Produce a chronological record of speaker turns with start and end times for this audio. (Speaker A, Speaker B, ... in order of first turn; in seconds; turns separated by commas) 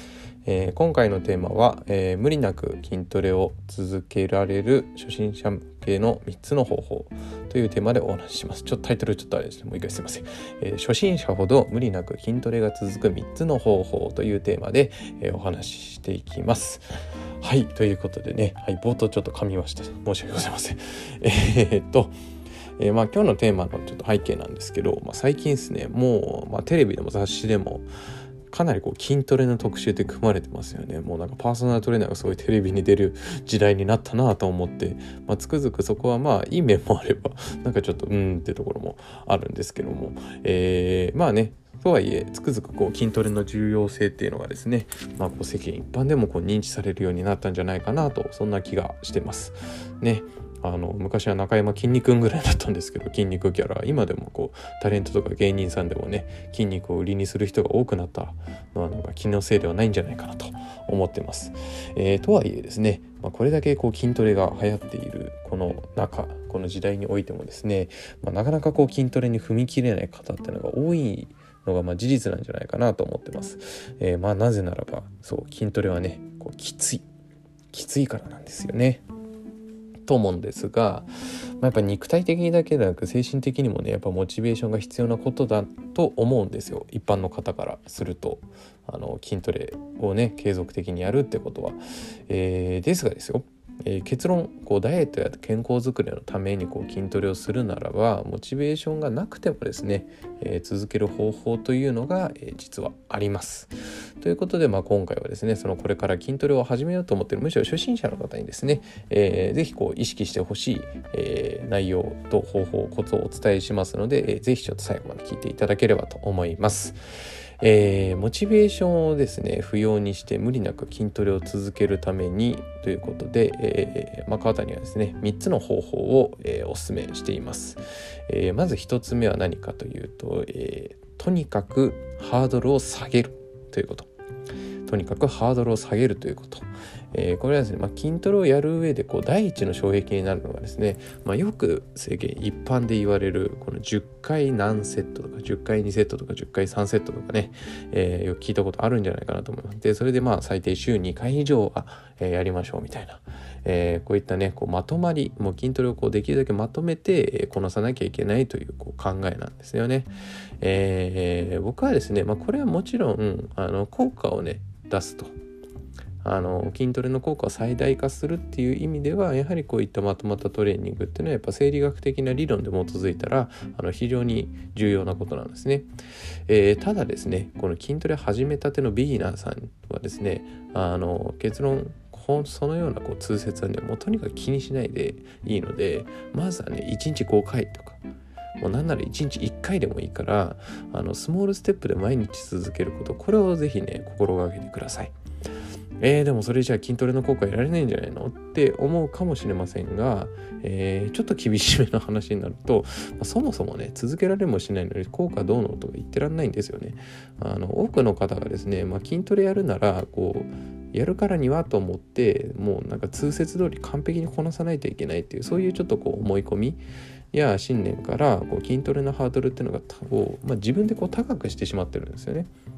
Speaker A: 0.5-16.9, Speaker A: 17.4-22.1, Speaker A: 22.8-27.9, Speaker A: 28.5-77.0, Speaker A: 77.7-79.0, Speaker A: 80.1-81.1, Speaker A: 81.6-117.0, Speaker A: 117.6-134.1, Speaker A: 134.9-165.3, Speaker A: 166.2-175.9, Speaker A: 176.5-188.0, Speaker A: 188.6-195.1, Speaker A: 196.0-222.5